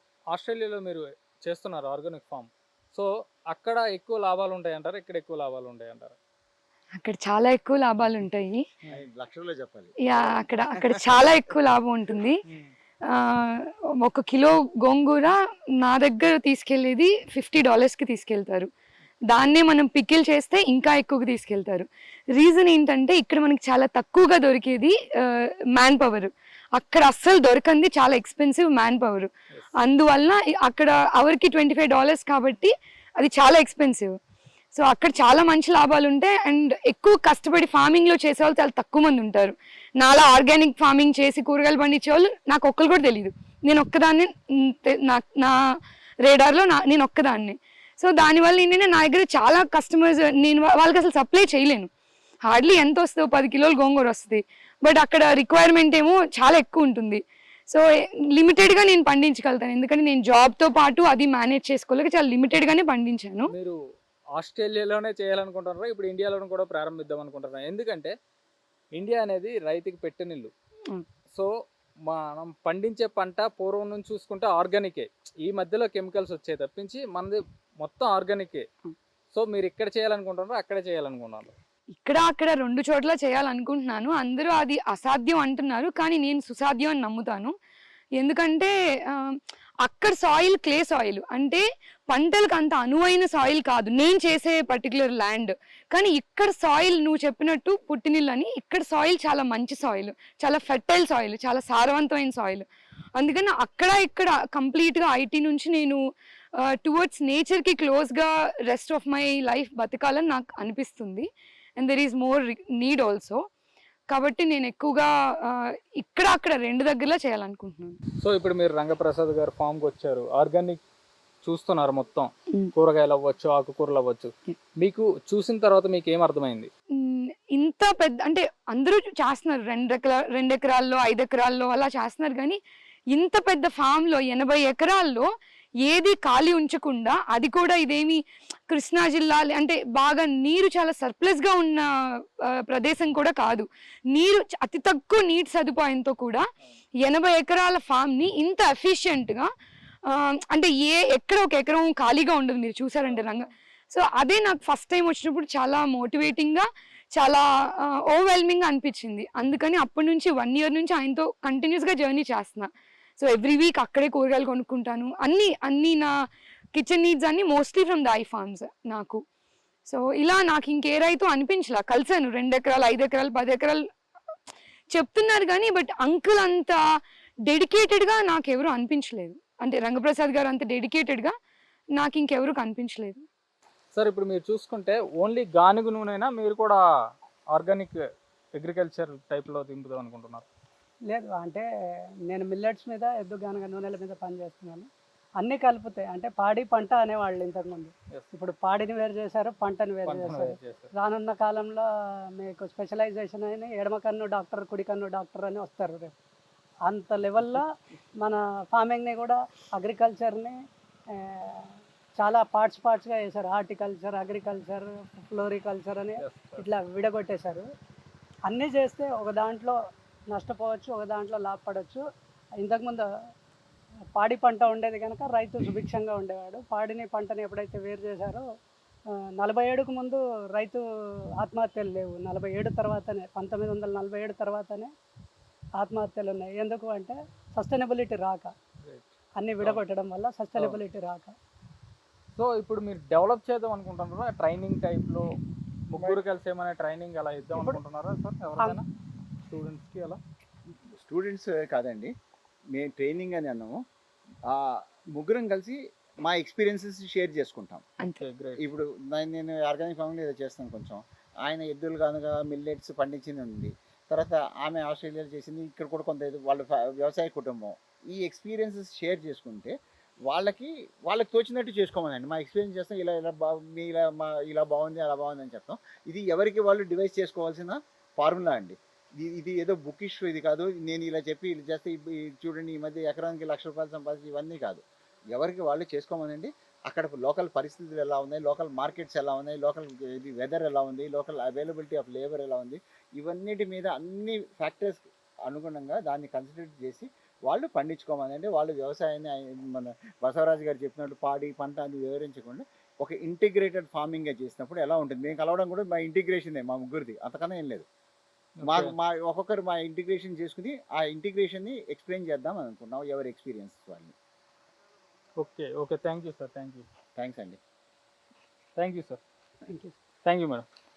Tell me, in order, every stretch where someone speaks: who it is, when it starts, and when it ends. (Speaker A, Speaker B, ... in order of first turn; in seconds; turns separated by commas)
Speaker A: 0.3-6.2, Speaker B: 7.0-8.6, Speaker C: 8.9-11.3, Speaker B: 10.0-12.4, Speaker B: 13.1-18.7, Speaker B: 19.3-34.1, Speaker B: 34.7-45.5, Speaker B: 46.2-51.9, Speaker B: 52.5-63.5, Speaker A: 63.5-63.8, Speaker A: 64.3-68.1, Speaker A: 68.9-70.5, Speaker A: 72.1-78.6, Speaker A: 79.3-81.5, Speaker B: 82.0-87.5, Speaker B: 88.2-106.0, Speaker B: 106.6-111.3, Speaker B: 111.8-113.4, Speaker B: 114.1-118.0, Speaker A: 118.2-120.8, Speaker A: 121.4-126.7, Speaker B: 127.0-132.6, Speaker B: 133.1-135.3, Speaker B: 135.8-146.4, Speaker B: 147.0-149.5, Speaker B: 150.1-166.1, Speaker A: 153.1-153.4, Speaker B: 166.7-169.2, Speaker B: 169.8-173.8, Speaker B: 174.9-176.8, Speaker B: 177.4-181.3, Speaker B: 181.9-183.2, Speaker A: 183.9-186.8, Speaker A: 187.5-188.0, Speaker A: 188.6-190.4, Speaker D: 191.1-191.6, Speaker D: 192.3-194.9, Speaker D: 195.4-206.1, Speaker A: 200.1-200.9, Speaker D: 206.8-207.7, Speaker D: 208.2-210.6, Speaker D: 211.1-217.6, Speaker A: 216.2-216.6, Speaker D: 218.4-219.8, Speaker D: 220.3-222.0, Speaker D: 222.6-223.0, Speaker D: 224.1-228.4, Speaker D: 229.3-230.8, Speaker D: 231.4-234.9, Speaker D: 235.8-238.5, Speaker A: 238.8-239.1, Speaker D: 239.3-241.3, Speaker A: 242.3-245.2, Speaker A: 245.9-248.8, Speaker A: 249.5-250.2, Speaker C: 250.9-252.1, Speaker C: 252.7-253.8, Speaker C: 254.5-257.8, Speaker A: 258.2-258.6, Speaker C: 258.6-269.7, Speaker C: 270.3-284.8, Speaker C: 285.3-307.9, Speaker A: 308.6-308.9, Speaker C: 308.6-314.1, Speaker A: 315.4-316.8, Speaker C: 317.2-317.6, Speaker A: 318.8-319.2, Speaker D: 319.7-319.9, Speaker A: 320.2-320.6